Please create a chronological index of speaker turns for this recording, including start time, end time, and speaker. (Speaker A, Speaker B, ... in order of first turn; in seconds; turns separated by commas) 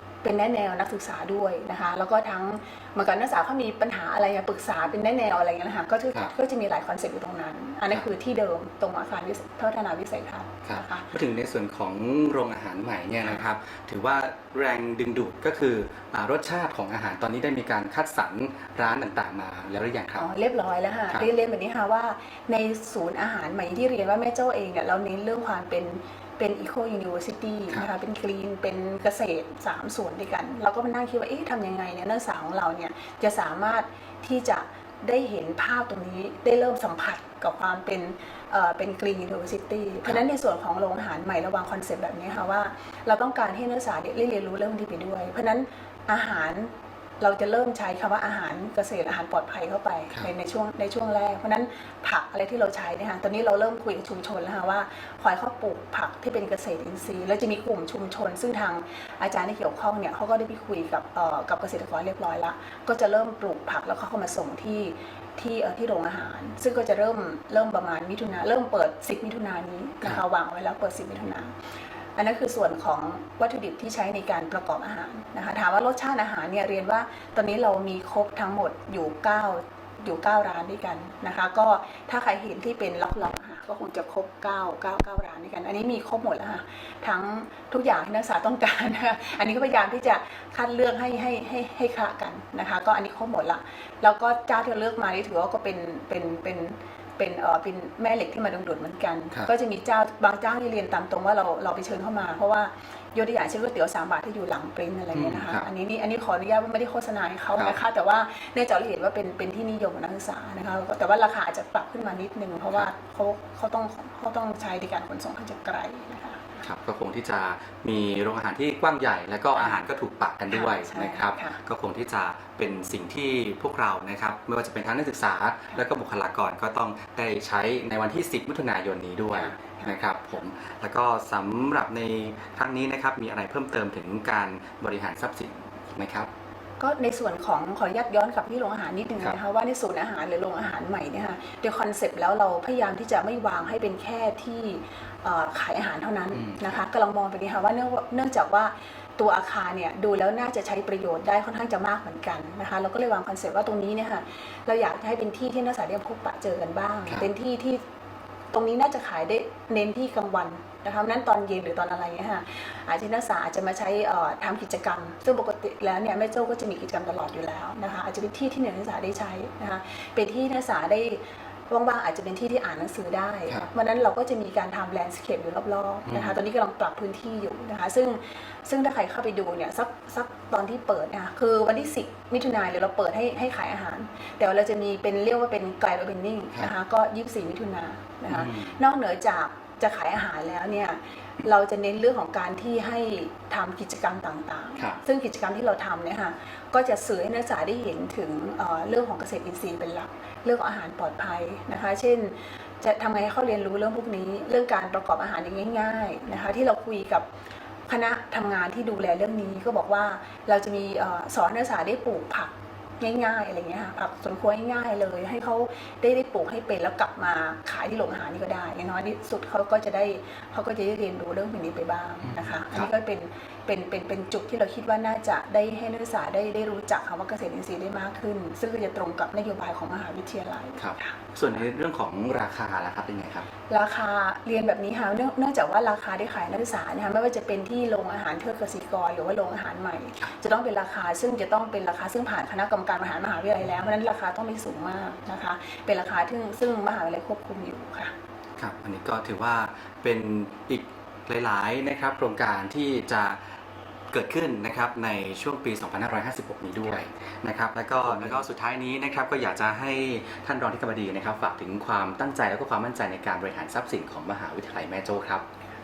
Speaker A: 0.2-11.1, Speaker B: 10.7-20.3, Speaker A: 20.2-71.5, Speaker A: 72.2-116.6, Speaker B: 105.1-105.7, Speaker B: 116.6-136.3, Speaker A: 119.5-119.8, Speaker A: 120.5-121.6, Speaker A: 129.3-130.0, Speaker A: 136.8-157.8, Speaker B: 146.3-146.8, Speaker A: 158.5-207.3, Speaker B: 176.1-176.4, Speaker B: 188.3-188.8, Speaker A: 207.9-231.2, Speaker B: 222.2-222.9, Speaker B: 230.8-233.5, Speaker A: 233.7-248.1, Speaker B: 248.6-253.4, Speaker B: 254.1-265.4